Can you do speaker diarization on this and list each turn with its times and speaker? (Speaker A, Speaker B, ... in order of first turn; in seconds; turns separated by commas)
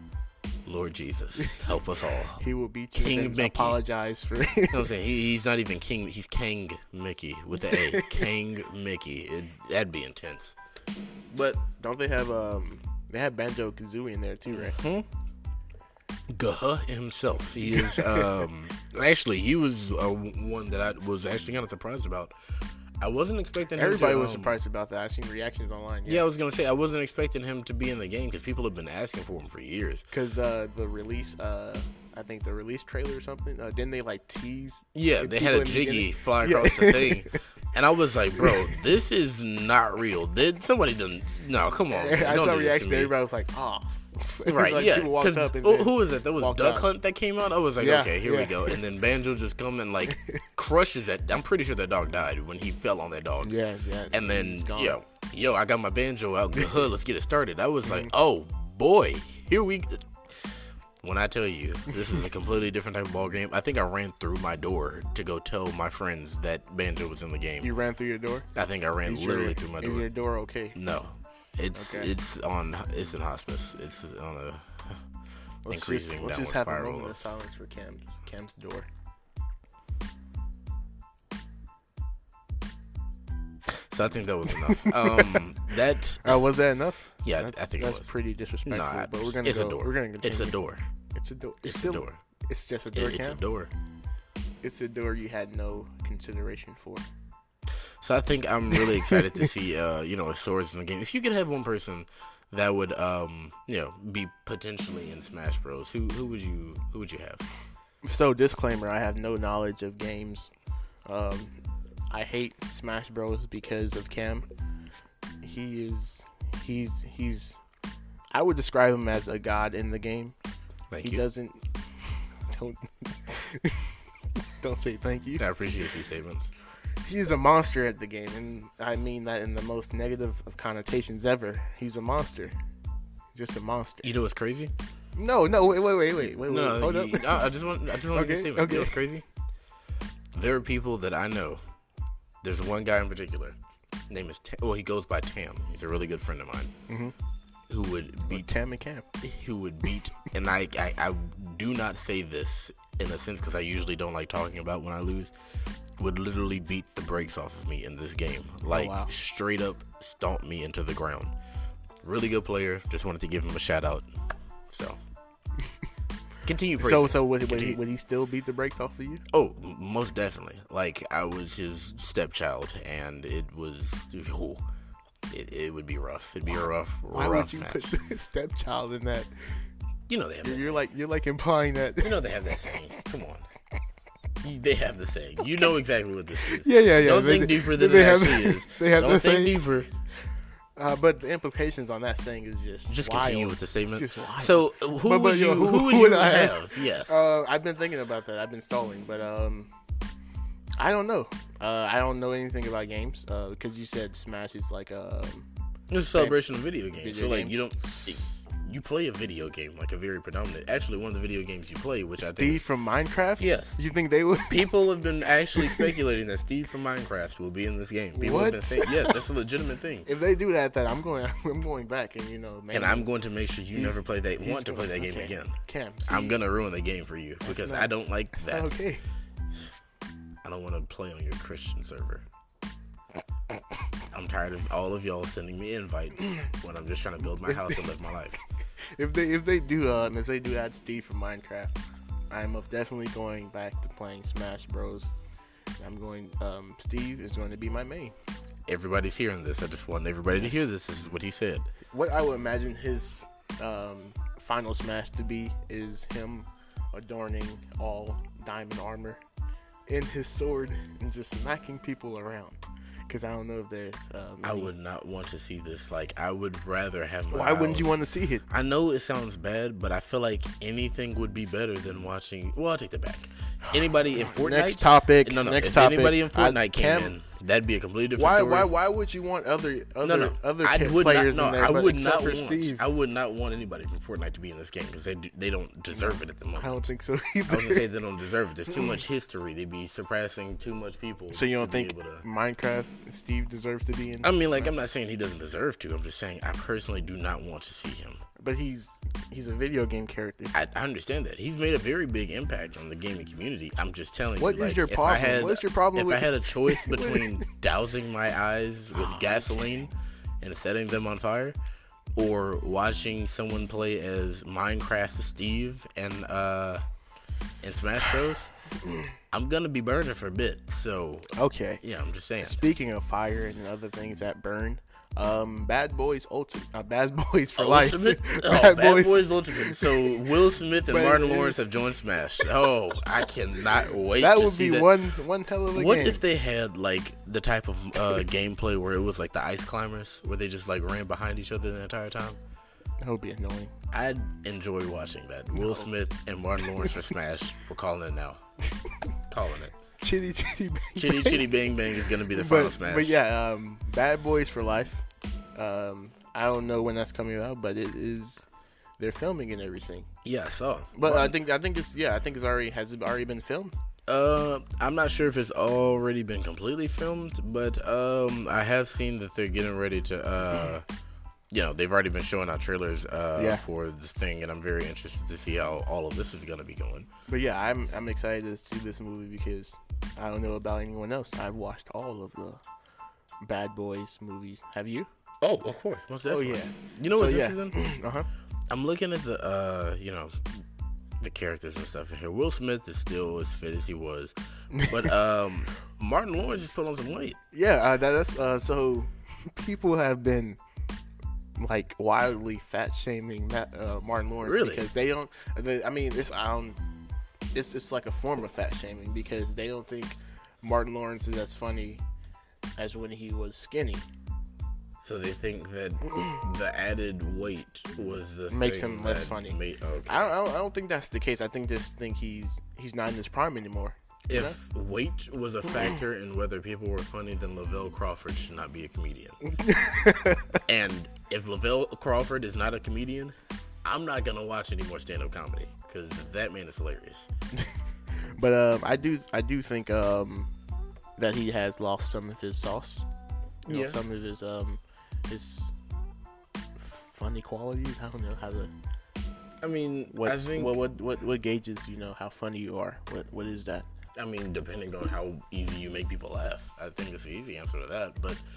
Speaker A: 0.7-2.4, Speaker B: 1.4-1.7, Speaker B: 2.4-4.9, Speaker A: 2.9-3.8, Speaker A: 4.7-10.5, Speaker B: 7.7-8.2, Speaker A: 11.3-11.6, Speaker B: 11.8-14.8, Speaker A: 14.5-15.1, Speaker A: 16.3-22.3, Speaker B: 17.7-18.3, Speaker A: 23.0-24.6, Speaker B: 23.8-26.2, Speaker A: 26.1-30.0, Speaker B: 30.1-37.4, Speaker A: 34.9-43.1, Speaker B: 38.4-38.7, Speaker B: 41.9-46.9, Speaker A: 44.5-53.5, Speaker B: 47.8-48.8, Speaker B: 50.1-50.4, Speaker B: 53.4-55.0, Speaker A: 54.1-60.5, Speaker B: 56.5-56.8, Speaker B: 57.9-58.1, Speaker A: 61.0-67.7, Speaker B: 67.6-68.5, Speaker A: 68.5-70.1, Speaker B: 69.0-70.8, Speaker A: 70.7-75.0, Speaker B: 71.7-72.1, Speaker B: 75.6-78.9, Speaker A: 75.7-77.2, Speaker A: 83.7-86.4, Speaker B: 84.7-85.4, Speaker B: 86.2-90.5, Speaker A: 87.2-88.1, Speaker A: 88.6-90.8, Speaker B: 91.1-93.4, Speaker A: 91.6-92.2, Speaker A: 92.9-93.7, Speaker B: 94.6-97.0, Speaker A: 98.0-107.5, Speaker B: 99.0-99.4, Speaker B: 108.0-110.5, Speaker B: 111.1-111.5, Speaker B: 112.1-114.5, Speaker B: 115.4-117.6, Speaker B: 118.3-120.3, Speaker A: 120.9-121.2, Speaker B: 121.0-121.6, Speaker B: 122.1-124.0, Speaker B: 124.6-125.4, Speaker A: 125.4-126.5, Speaker B: 127.0-132.5, Speaker B: 133.3-134.1, Speaker A: 134.0-134.7, Speaker B: 135.2-139.0, Speaker A: 136.2-139.2, Speaker A: 140.3-141.6, Speaker A: 142.4-143.6, Speaker A: 144.1-146.7, Speaker B: 146.9-147.1, Speaker A: 147.7-148.5, Speaker B: 148.3-149.0, Speaker A: 149.2-155.3, Speaker A: 156.0-161.3, Speaker B: 158.7-159.1, Speaker A: 162.0-164.1, Speaker A: 164.7-165.0, Speaker A: 166.4-167.8, Speaker B: 166.8-169.2, Speaker A: 169.3-174.6, Speaker A: 175.3-177.9, Speaker B: 177.1-179.6, Speaker A: 180.1-180.8, Speaker B: 180.4-182.7, Speaker A: 182.0-183.5, Speaker A: 184.4-189.9, Speaker B: 186.4-189.6, Speaker B: 190.8-199.7, Speaker A: 192.9-197.2, Speaker B: 200.8-205.5, Speaker A: 205.9-212.6, Speaker B: 206.1-206.4, Speaker B: 206.9-207.6, Speaker B: 212.2-214.7, Speaker A: 213.4-213.8, Speaker A: 214.5-220.1, Speaker B: 215.6-215.9, Speaker B: 218.1-219.2, Speaker B: 220.1-223.1, Speaker A: 222.7-228.7, Speaker B: 223.7-226.4, Speaker B: 227.4-229.0, Speaker A: 230.4-232.2, Speaker A: 234.1-238.4, Speaker B: 237.5-237.8, Speaker B: 238.8-241.8, Speaker B: 242.3-245.1, Speaker B: 245.8-248.1, Speaker A: 248.7-251.7, Speaker B: 250.3-250.6, Speaker B: 251.9-259.2, Speaker B: 259.9-264.7, Speaker A: 264.4-267.9, Speaker B: 267.3-268.4, Speaker A: 268.5-278.7, Speaker B: 273.6-277.1, Speaker B: 278.2-282.8, Speaker A: 280.0-286.8, Speaker B: 285.9-287.8, Speaker A: 287.5-292.2, Speaker B: 291.3-294.7, Speaker A: 294.2-298.2, Speaker B: 298.4-300.5, Speaker A: 300.5-311.6, Speaker B: 304.4-307.4, Speaker B: 308.9-309.7, Speaker A: 312.1-316.8, Speaker A: 317.6-318.5, Speaker A: 319.3-322.6, Speaker B: 321.3-321.8, Speaker B: 322.4-330.2, Speaker A: 327.6-334.9, Speaker B: 330.9-331.6, Speaker B: 334.1-336.2, Speaker A: 335.7-342.4, Speaker B: 343.0-343.7, Speaker A: 343.9-348.4, Speaker B: 345.5-345.9, Speaker A: 349.3-349.7, Speaker B: 350.0-351.5, Speaker A: 350.9-353.2, Speaker B: 352.3-355.0, Speaker B: 355.6-358.4, Speaker B: 359.0-360.1, Speaker A: 360.2-361.4, Speaker B: 360.9-363.7, Speaker A: 364.1-370.9, Speaker A: 371.5-377.1, Speaker B: 373.4-373.6, Speaker B: 377.3-382.6, Speaker B: 383.4-385.1, Speaker A: 385.4-387.8, Speaker B: 386.2-388.2, Speaker A: 388.7-390.6, Speaker A: 391.2-397.4, Speaker B: 394.7-395.0, Speaker B: 397.5-400.6, Speaker B: 401.6-406.8, Speaker A: 404.4-404.8, Speaker B: 407.5-412.0, Speaker B: 412.8-414.1, Speaker A: 415.0-420.3, Speaker B: 418.5-424.6, Speaker A: 424.3-429.4, Speaker B: 429.4-430.6, Speaker A: 430.7-437.3, Speaker B: 438.3-440.5, Speaker B: 441.2-443.1, Speaker A: 443.6-444.0, Speaker B: 443.7-445.7, Speaker B: 446.8-448.7, Speaker A: 449.6-450.7, Speaker B: 450.1-453.9, Speaker A: 454.2-458.4